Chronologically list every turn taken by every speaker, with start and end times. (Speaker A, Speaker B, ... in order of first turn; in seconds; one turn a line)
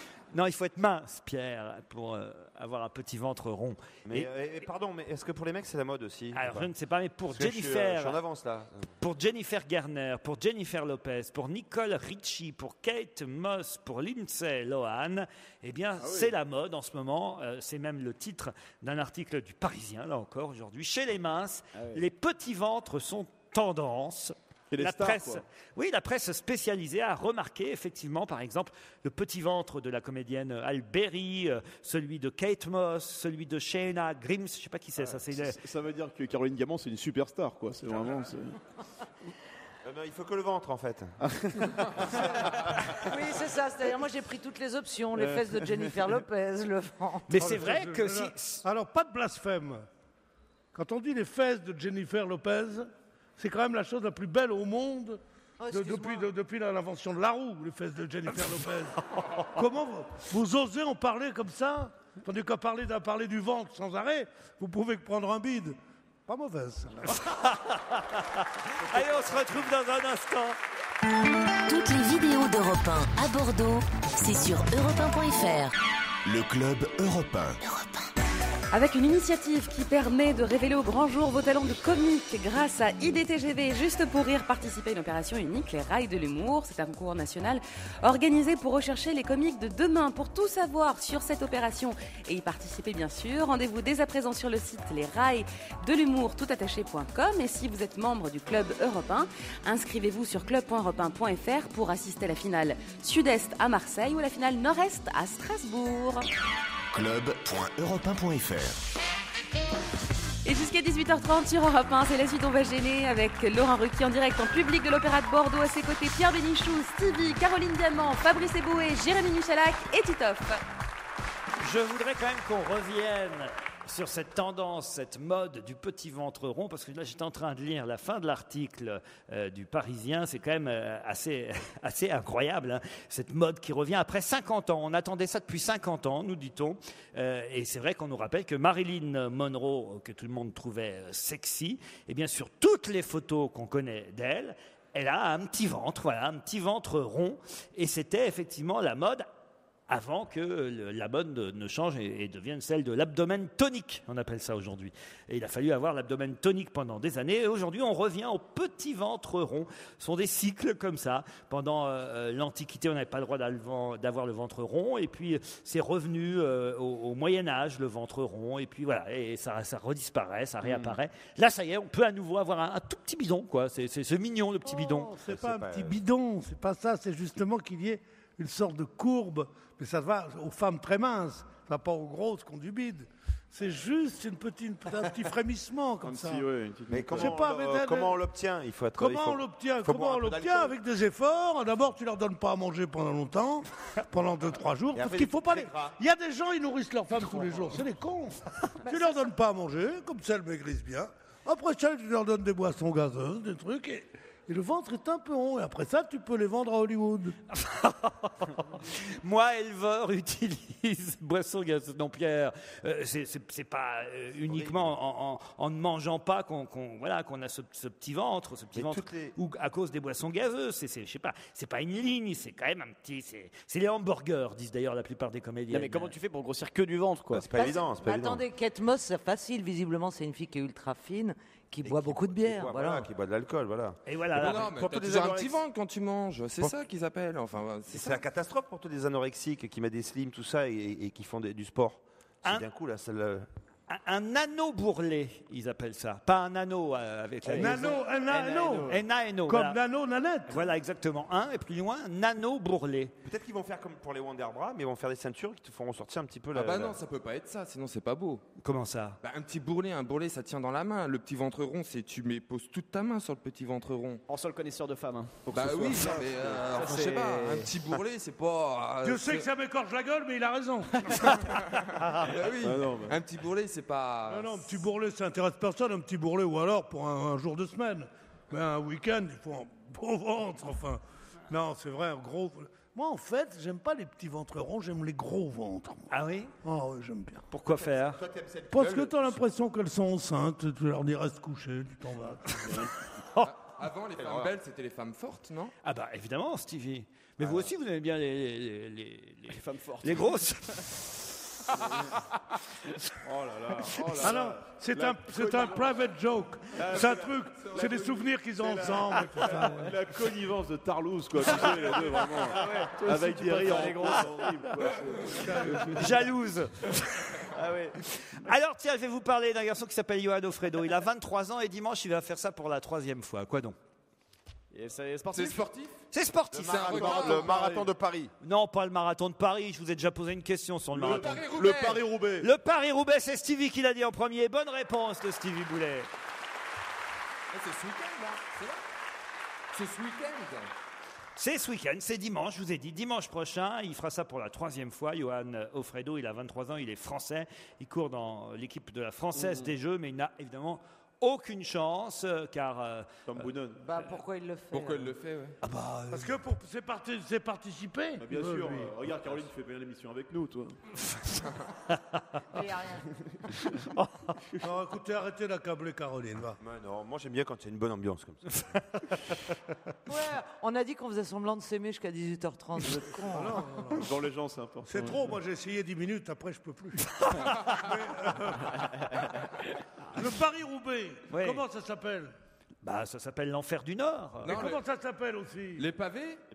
Speaker A: 0.3-4.3
Speaker B: 4.1-6.7
Speaker A: 6.3-8.2
Speaker B: 7.3-8.9
Speaker A: 8.9-35.6
Speaker C: 16.0-16.3
Speaker D: 21.7-22.0
Speaker C: 24.7-25.4
Speaker C: 35.3-38.6
Speaker B: 39.8-41.8
Speaker C: 41.2-41.8
Speaker E: 43.0-47.5
Speaker C: 45.2-46.0
Speaker A: 47.3-48.6
Speaker F: 47.4-49.9
Speaker F: 50.7-55.2
Speaker E: 55.6-56.3
Speaker F: 55.7-59.0
Speaker A: 59.2-59.5
Speaker F: 59.6-67.2
Speaker A: 67.1-70.6
Speaker C: 69.0-69.3
Speaker G: 71.7-75.7
Speaker H: 76.3-77.6
Speaker G: 77.6-78.0
Speaker I: 78.7-106.2
Speaker H: 106.9-108.8
Speaker I: 110.5-120.6
Speaker A: 121.6-149.3
Speaker A: 149.9-175.1
Speaker F: 174.7-186.4
Speaker B: 175.3-176.0
Speaker C: 186.0-187.4
Speaker B: 186.9-190.8
Speaker F: 187.1-188.2
Speaker F: 189.0-207.3
Speaker B: 194.9-196.0
Speaker E: 198.9-199.2
Speaker A: 207.5-226.1
Speaker B: 214.4-214.9
Speaker B: 218.8-219.4
Speaker D: 225.7-227.4
Speaker B: 227.3-228.4
Speaker E: 227.5-233.1
Speaker B: 231.8-235.6
Speaker A: 234.1-234.8
Speaker J: 234.3-238.2
Speaker B: 237.9-243.5
Speaker A: 243.9-248.0
Speaker D: 247.4-249.0
Speaker F: 247.5-248.9
Speaker A: 248.9-249.8
Speaker F: 249.4-250.7
Speaker A: 250.5-253.1
Speaker B: 253.2-257.0
Speaker J: 256.5-258.4
Speaker A: 258.6-259.2
Speaker J: 259.2-264.2
Speaker D: 264.3-267.7
Speaker J: 265.5-269.5
Speaker C: 265.6-266.1
Speaker F: 269.0-271.4
Speaker A: 271.9-272.4
Speaker J: 272.3-274.7
Speaker C: 272.6-273.2
Speaker F: 274.3-286.1
Speaker A: 286.1-286.5
Speaker F: 286.6-287.4
Speaker A: 287.5-288.2
Speaker B: 287.8-289.4
Speaker F: 288.7-292.9
Speaker J: 293.4-295.7
Speaker B: 294.2-294.5
Speaker A: 295.8-301.1
Speaker B: 297.4-297.7
Speaker D: 299.5-300.8
Speaker C: 303.2-306.0
Speaker F: 304.2-309.9
Speaker C: 306.7-315.9
Speaker D: 312.0-314.6
Speaker F: 315.5-315.9
Speaker D: 315.5-316.0
Speaker A: 315.9-317.4
Speaker D: 317.5-318.0
Speaker A: 318.3-323.8
Speaker D: 324.7-325.7
Speaker J: 325.3-326.0
Speaker A: 326.1-327.5
Speaker B: 326.5-328.3
Speaker J: 326.6-327.9
Speaker A: 328.4-331.4
Speaker C: 330.9-332.5
Speaker J: 331.1-332.1
Speaker A: 332.4-336.1
Speaker J: 337.5-338.8
Speaker J: 339.7-340.7
Speaker A: 341.4-353.4
Speaker D: 349.4-349.7
Speaker C: 353.3-353.9
Speaker E: 353.8-355.2
Speaker J: 354.7-355.6
Speaker A: 355.6-356.4
Speaker F: 356.1-358.9
Speaker C: 358.2-360.8
Speaker E: 362.5-363.1
Speaker A: 363.9-364.3
Speaker F: 364.6-366.6
Speaker B: 366.6-368.6
Speaker A: 368.7-369.2
Speaker E: 370.1-373.8
Speaker F: 373.3-374.1
Speaker C: 373.9-375.3
Speaker F: 374.9-379.3
Speaker A: 377.2-377.8
Speaker F: 380.1-382.3
Speaker A: 381.3-381.6
Speaker A: 382.8-384.7
Speaker J: 384.4-384.8
Speaker F: 384.4-385.8
Speaker J: 385.8-386.4